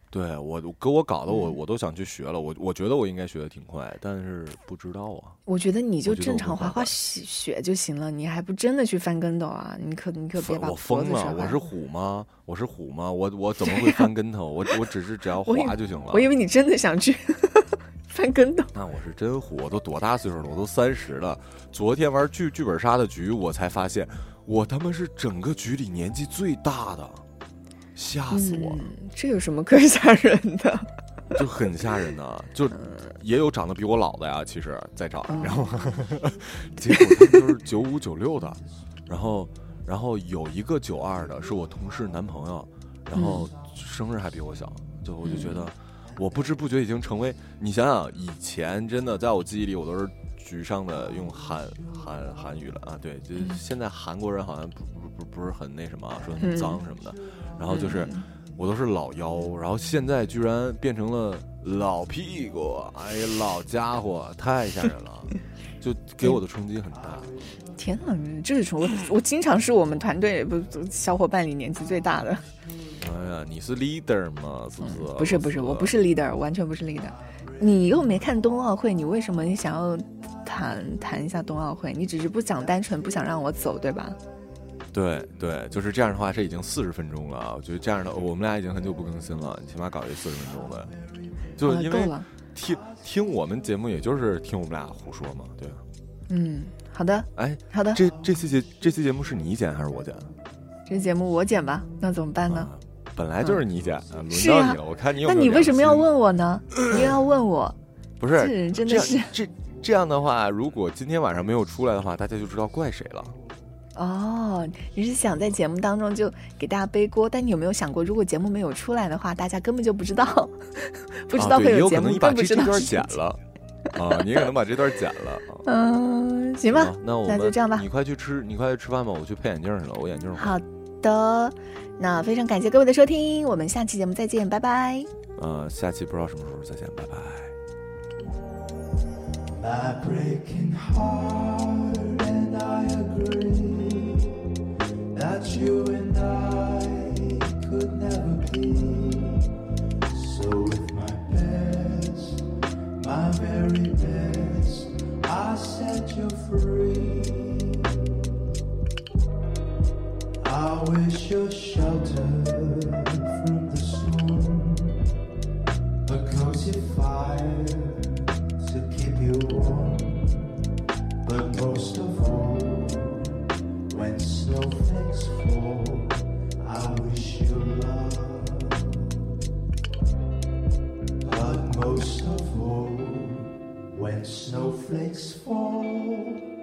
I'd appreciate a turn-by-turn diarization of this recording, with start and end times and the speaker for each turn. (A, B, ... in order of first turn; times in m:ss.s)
0:00.1-0:05.4 A
0:01.3-0:01.5 B
0:05.4-0:11.6 B
0:06.0-0:06.9 A
0:10.4-0:16.3 A
0:13.6-0:14.0 B
0:15.4-0:18.7 B
0:18.7-0:27.2 A
0:27.9-0:28.9 A
0:28.3-0:30.9 B
0:31.3-1:07.3 A
0:32.8-0:33.0 B
0:35.3-0:35.7 B
0:36.8-0:37.4 B
0:43.1-0:43.5 B
0:45.2-0:45.7 B
0:56.4-0:56.8 B
0:57.7-0:58.2 B
1:07.8-1:12.5 B
1:13.0-1:16.0 A
1:14.8-1:24.2 B
1:24.9-1:30.9 A
1:31.6-1:35.8 A
1:31.6-1:32.3 B
1:36.3-1:38.0 B
1:37.4-1:40.3 A
1:40.9-1:42.7 B
1:42.5-1:46.1 A
1:44.3-1:47.8 B
1:46.7-1:47.0 A
1:48.2-1:53.4 A
1:48.3-1:49.3 B
1:53.9-2:03.1 B
2:01.3-2:03.4 A
2:03.9-2:05.6 A
2:05.6-2:07.8 B
2:06.7-2:10.5 A
2:10.4-2:15.1 B
2:15.4-2:17.5 A
2:19.6-2:24.3 C
2:25.1-2:29.5 C
2:30.1-2:32.4 C
2:33.0-2:38.2 C
2:40.4-2:45.0 C
2:46.0-2:50.5 C
2:51.2-2:53.4 C
2:53.9-2:59.1 C
3:01.2-3:06.4 C